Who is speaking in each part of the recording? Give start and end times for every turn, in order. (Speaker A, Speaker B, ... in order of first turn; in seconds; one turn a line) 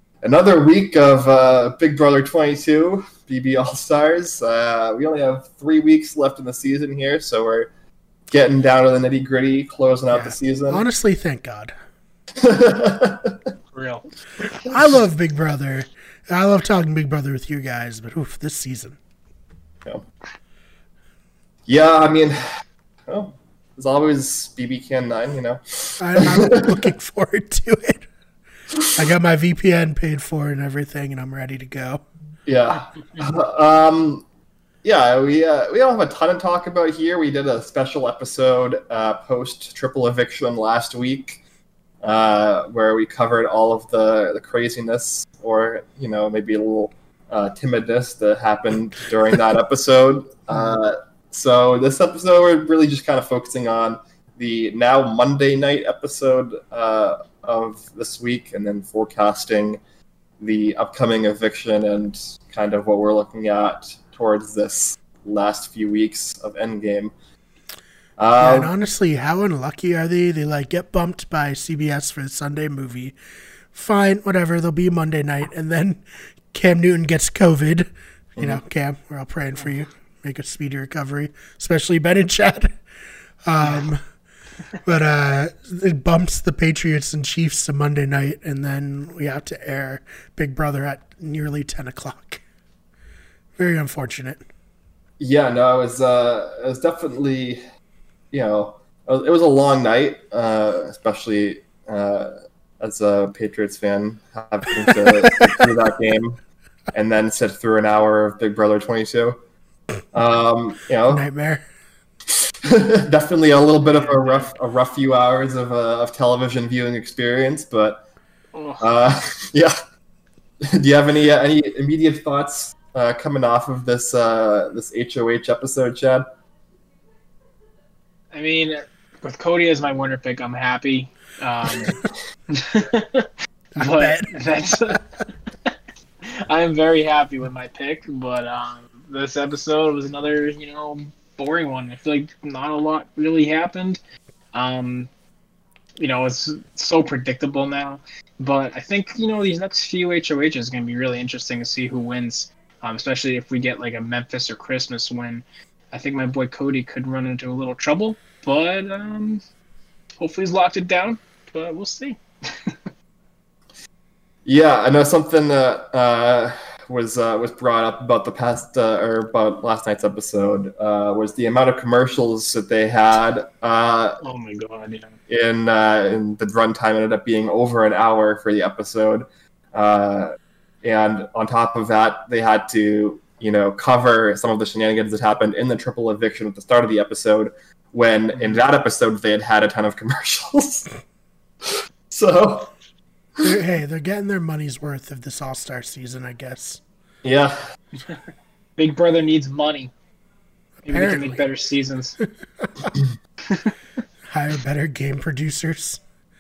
Speaker A: 0.2-7.7
Speaker A: 8.3-10.8
Speaker B: 10.1-11.7
Speaker A: 12.4-13.4
Speaker C: 13.7-14.1
Speaker A: 14.5-14.9
Speaker B: 14.6-19.0
Speaker A: 21.7-22.4
Speaker A: 23.1-26.9
Speaker B: 26.0-28.1
Speaker B: 28.9-32.0
Speaker A: 32.5-34.2
Speaker A: 34.8-41.4
Speaker A: 42.0-59.8
Speaker A: 60.4-67.1
Speaker A: 68.2-68.7
Speaker B: 68.4-73.2
Speaker B: 73.7-82.8
Speaker B: 83.5-84.0
Speaker B: 84.8-92.4
Speaker B: 93.6-94.4
Speaker A: 95.2-97.6
Speaker A: 98.3-106.4
Speaker B: 104.9-105.6
Speaker A: 106.9-109.4
Speaker A: 110.1-111.2
Speaker B: 111.1-111.6
Speaker A: 112.3-118.0
Speaker C: 113.9-114.5
Speaker C: 118.5-118.9
Speaker A: 118.8-119.8
Speaker A: 120.7-126.3
Speaker C: 128.3-132.0
Speaker C: 132.5-135.0
Speaker B: 133.8-135.0
Speaker C: 136.2-144.0
Speaker C: 144.5-145.1
Speaker C: 146.0-159.4
Speaker C: 160.2-162.9
Speaker A: 164.4-174.2
Speaker C: 174.2-175.2
Speaker A: 175.3-190.9
Speaker A: 191.6-192.7
Speaker B: 193.4-196.8
Speaker A: 197.2-197.7
Speaker C: 198.8-199.9
Speaker C: 200.9-202.2
Speaker B: 200.9-201.4
Speaker B: 202.2-202.9
Speaker C: 203.5-203.7
Speaker B: 204.3-206.0